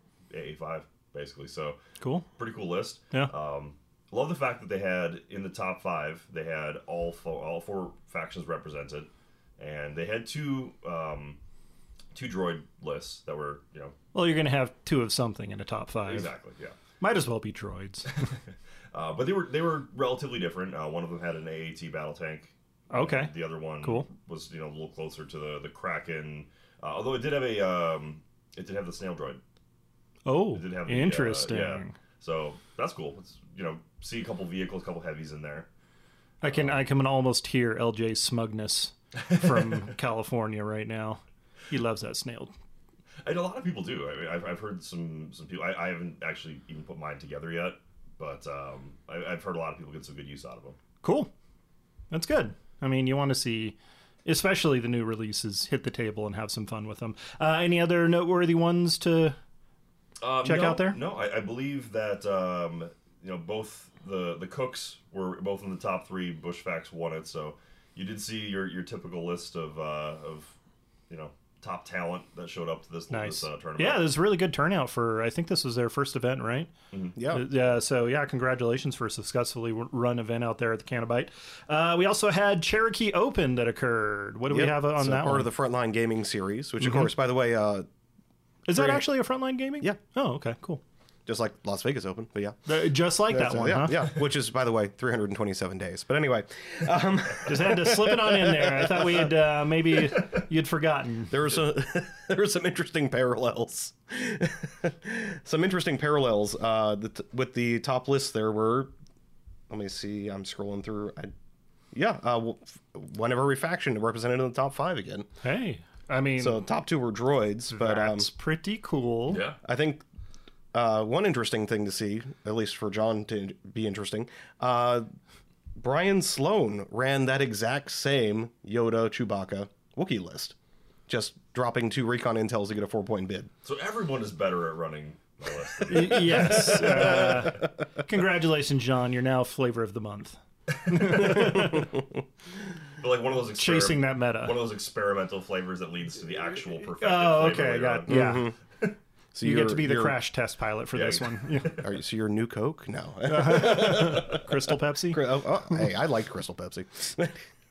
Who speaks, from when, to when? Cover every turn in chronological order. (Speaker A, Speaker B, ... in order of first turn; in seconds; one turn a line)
Speaker A: 0.3-1.8
Speaker B: 2.0-2.3
Speaker A: 2.4-11.4
Speaker A: 12.1-13.9
Speaker B: 14.1-16.3
Speaker A: 16.1-16.8
Speaker B: 17.0-18.1
Speaker A: 18.9-29.4
Speaker B: 22.9-24.1
Speaker B: 30.3-32.0
Speaker A: 30.5-35.7
Speaker B: 36.4-42.5
Speaker A: 36.5-36.8
Speaker A: 39.2-39.8
Speaker A: 43.2-50.8
Speaker B: 51.0-51.3
Speaker B: 52.1-59.4
Speaker A: 60.2-70.5
Speaker B: 60.4-61.0
Speaker A: 71.1-74.1
Speaker B: 73.1-76.7
Speaker C: 77.2-77.5
Speaker B: 77.3-85.5
Speaker C: 84.5-87.9
Speaker B: 86.8-87.1
Speaker B: 88.7-90.8
Speaker C: 88.7-89.0
Speaker C: 91.3-92.7
Speaker B: 92.7-94.1
Speaker C: 93.3-99.3
Speaker B: 97.5-101.4
Speaker C: 101.3-108.9
Speaker C: 109.7-111.3
Speaker C: 111.9-115.3
Speaker B: 115.4-116.6
Speaker C: 116.4-118.3
Speaker B: 117.7-119.4
Speaker A: 119.3-119.6
Speaker C: 119.6-120.0
Speaker C: 120.7-125.1
Speaker C: 125.8-130.6
Speaker C: 131.1-133.5
Speaker A: 133.6-137.2
Speaker B: 135.9-141.9
Speaker C: 136.3-137.7
Speaker A: 140.9-141.5
Speaker A: 143.0-148.4
Speaker B: 143.6-144.6
Speaker B: 147.0-148.5
Speaker C: 148.1-148.6
Speaker C: 149.3-150.2
Speaker B: 149.4-151.8
Speaker A: 150.9-151.8
Speaker C: 151.8-154.6
Speaker B: 153.2-155.2
Speaker C: 155.1-157.4